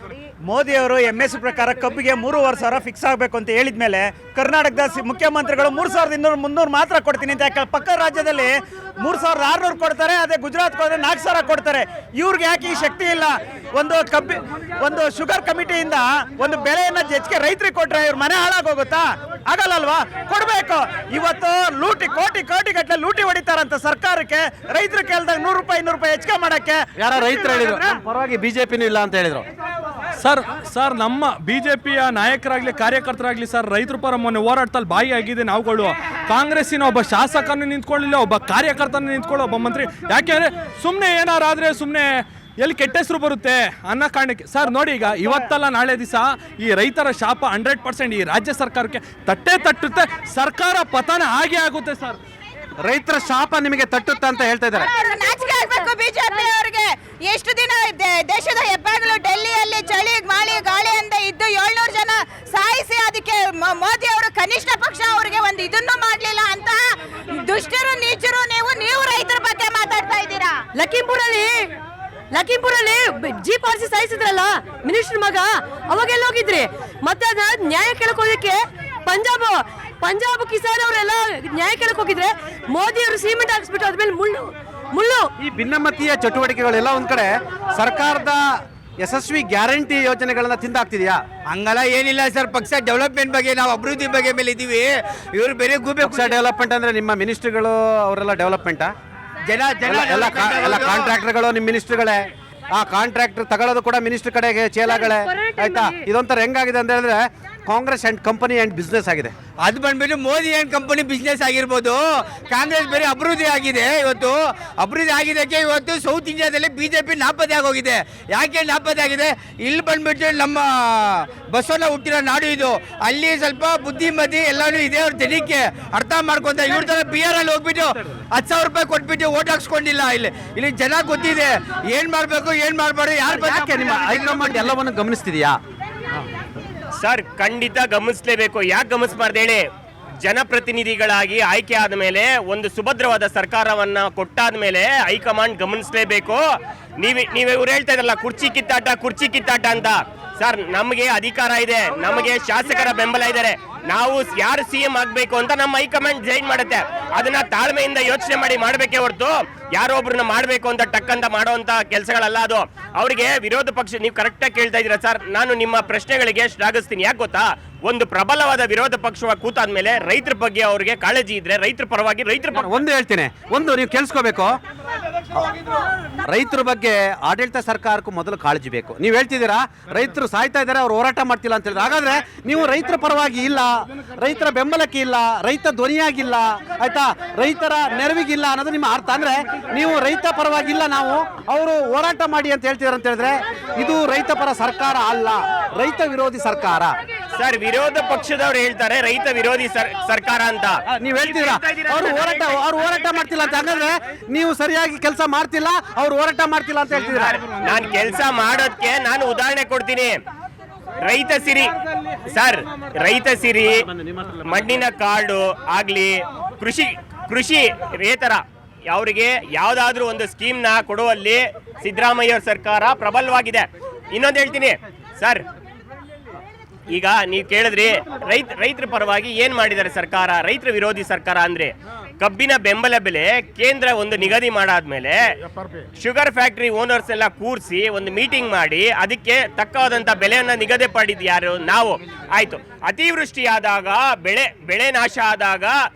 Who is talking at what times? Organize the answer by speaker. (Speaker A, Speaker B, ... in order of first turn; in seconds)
Speaker A: 0.5-26.8
Speaker B: 27.0-29.4, 52.8-54.9, 85.4-88.4, 89.0-91.2, 96.0-98.9, 99.8-102.2, 102.7-109.3, 133.3-135.6, 172.5-174.5, 176.3-196.9, 201.0-207.4, 213.8-214.3
Speaker C: 30.2-52.2
Speaker D: 54.7-70.6
Speaker E: 70.7-71.5, 72.3-85.2, 105.1-105.9
Speaker F: 91.5-96.3, 99.5-101.0, 109.7-134.4
Speaker G: 137.0-139.6, 140.2-146.4, 147.0-172.7, 197.4-202.6, 207.2-210.2, 211.0-211.7, 212.3-213.8, 214.4-225.4, 226.9-235.2, 236.0-245.7